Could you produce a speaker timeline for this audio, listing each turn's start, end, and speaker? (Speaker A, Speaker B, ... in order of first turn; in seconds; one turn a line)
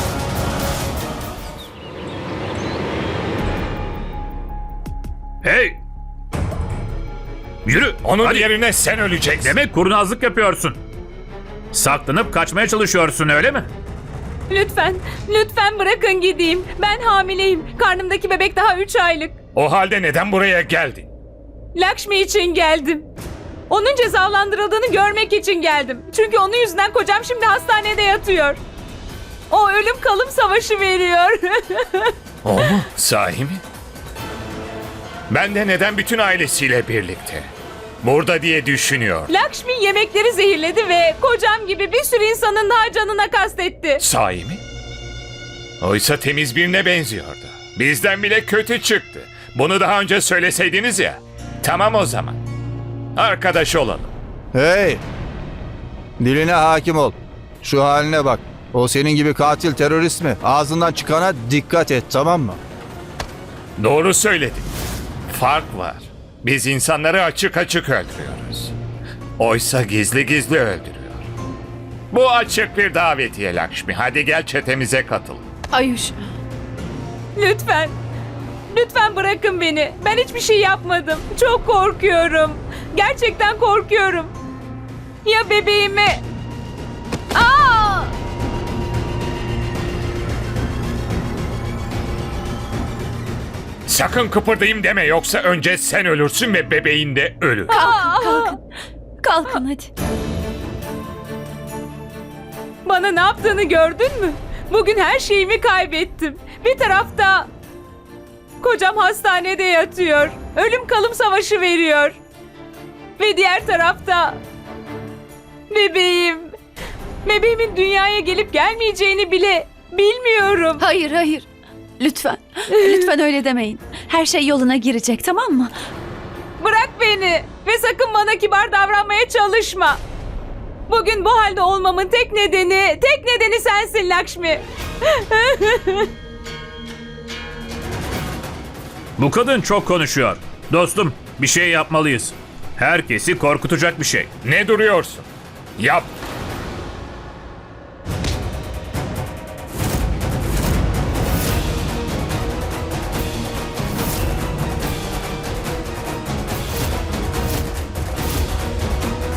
Speaker A: 5.4-5.8
Speaker A: 7.7-8.5
Speaker B: 8.0-9.6
Speaker A: 9.4-10.8
Speaker A: 11.7-13.7
Speaker C: 14.5-19.4
Speaker B: 19.5-21.1
Speaker C: 21.7-23.1
Speaker C: 23.7-28.6
Speaker C: 29.5-32.1
Speaker B: 32.4-33.6
Speaker B: 35.3-37.5
Speaker B: 38.0-39.3
Speaker C: 39.3-44.0
Speaker B: 44.0-44.6
Speaker B: 45.8-52.4
Speaker B: 53.1-54.1
Speaker D: 54.5-55.0
Speaker D: 56.2-62.6
Speaker B: 63.8-64.7
Speaker B: 65.3-68.7
Speaker B: 69.4-71.3
Speaker B: 72.1-75.4
Speaker E: 75.7-76.2
Speaker C: 77.3-77.9
Speaker C: 78.7-84.3
Speaker C: 85.2-86.2
Speaker C: 87.3-88.1
Speaker B: 93.8-97.8
Speaker C: 97.7-98.5
Speaker E: 97.7-98.6
Speaker E: 99.2-99.9
Speaker C: 102.8-107.5
Speaker C: 108.6-112.2
Speaker C: 113.2-114.4
Speaker C: 115.7-116.5
Speaker C: 117.2-120.8
Speaker E: 120.8-121.5
Speaker E: 122.0-125.7
Speaker C: 122.7-123.1
Speaker C: 126.6-130.0
Speaker C: 130.9-134.6
Speaker C: 135.3-136.1
Speaker A: 139.2-144.3
Speaker B: 144.4-146.1